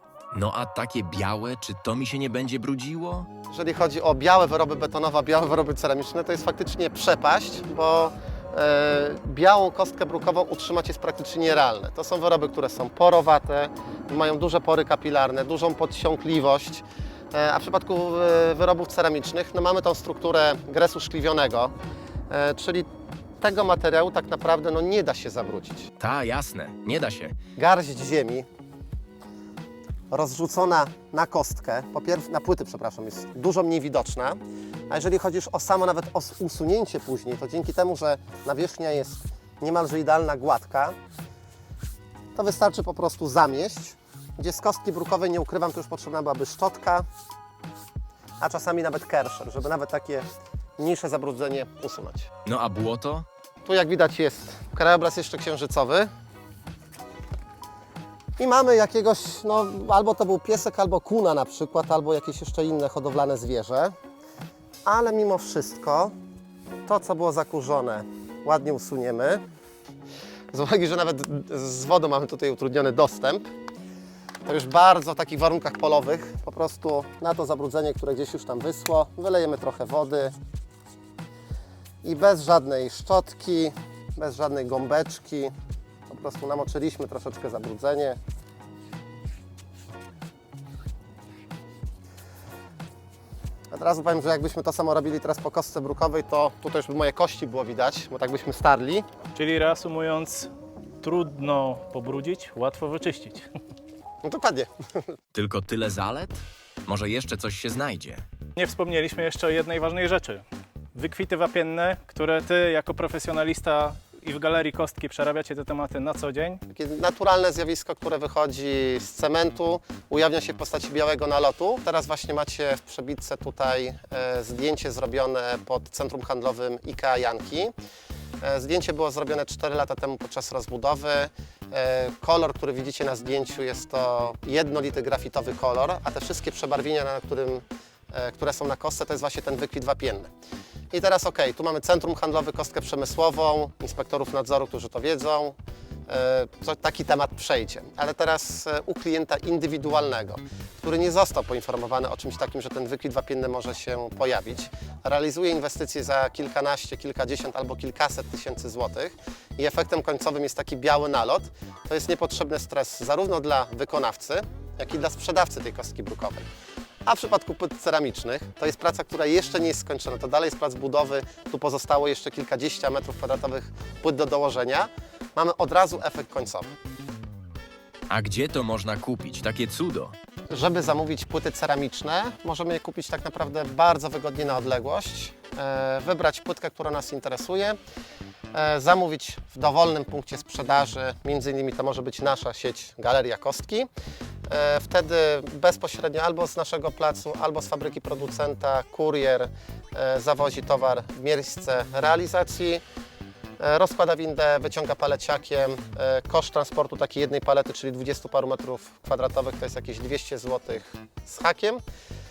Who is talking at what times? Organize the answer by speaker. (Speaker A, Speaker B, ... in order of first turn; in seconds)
Speaker A: 0.3-3.3, 26.0-27.4, 52.5-53.3, 105.3-108.2, 178.1-180.2
Speaker B: 3.5-21.7, 22.3-22.9, 23.4-25.9, 27.6-28.5, 30.1-41.0, 42.4-47.1, 48.4-50.3, 50.8-52.3, 53.6-56.1, 58.4-63.9, 64.8-66.1, 66.9-69.4, 70.5-73.5, 74.5-80.3, 82.0-85.5, 86.1-88.2, 93.7-99.1, 104.2-104.7, 116.7-127.7, 128.4-140.3, 140.9-145.6, 146.1-166.5, 167.1-176.7, 180.5-187.8, 188.5-193.9, 194.5-202.8, 203.6-211.8
Speaker C: 99.3-100.5, 101.0-103.5, 108.6-110.4, 111.0-116.6